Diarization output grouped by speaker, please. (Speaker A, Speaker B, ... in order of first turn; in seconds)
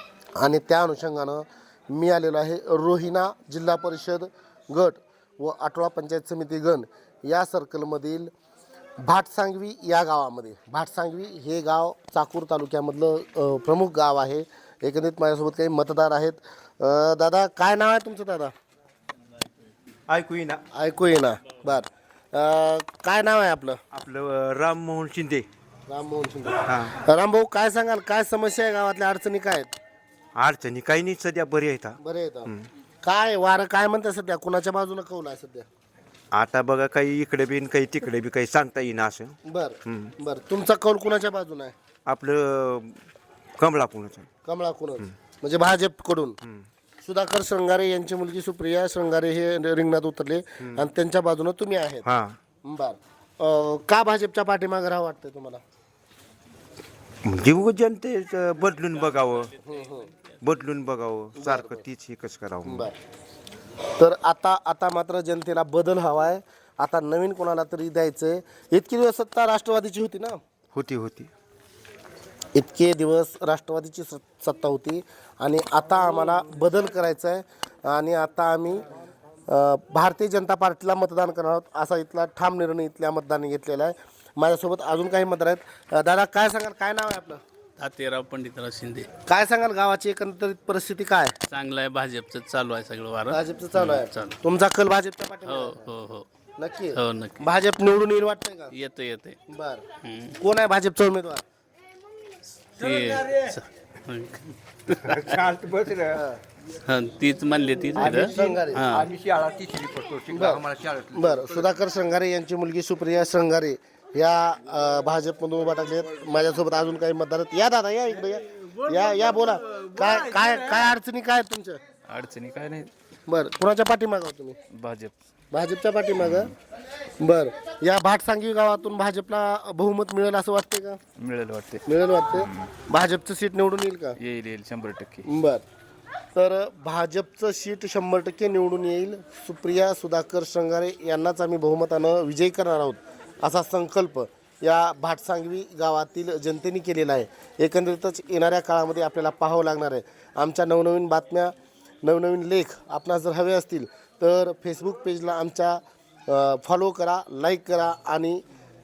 Speaker A: 0.4-8.3, 9.0-18.5, 20.7-23.8, 25.9-29.7, 32.0-32.5, 33.0-35.7, 39.5-41.7, 44.5-46.4, 47.0-52.1, 52.6-55.6, 59.6-60.1, 61.4-61.8, 62.6-62.9, 64.0-70.4, 72.5-78.9, 79.5-87.4, 89.3-91.3, 93.3-95.9, 96.6-98.7, 99.5-99.8, 100.3-101.4, 106.1-106.4, 108.0-109.0, 110.3-121.8, 123.3-124.6, 125.5-126.5, 127.2-131.0, 131.9-134.2, 135.2-135.6, 136.3-158.4
Speaker B: 20.1-20.6, 23.9-25.5, 26.6-27.0, 30.4-32.7, 36.3-40.1, 42.1-43.0, 43.6-44.3, 50.6-50.9, 52.0-52.4, 57.2-59.5, 60.4-62.9, 70.7-71.3, 104.9-106.2, 108.1-111.7
Speaker C: 58.9-60.4, 87.8-89.1, 91.5-94.4, 95.5-96.3, 96.9-97.5, 98.7-99.4, 100.0-100.4, 102.7-105.4, 106.8-109.1
Speaker D: 122.1-122.9, 124.7-125.2, 131.2-132.7, 134.2-135.3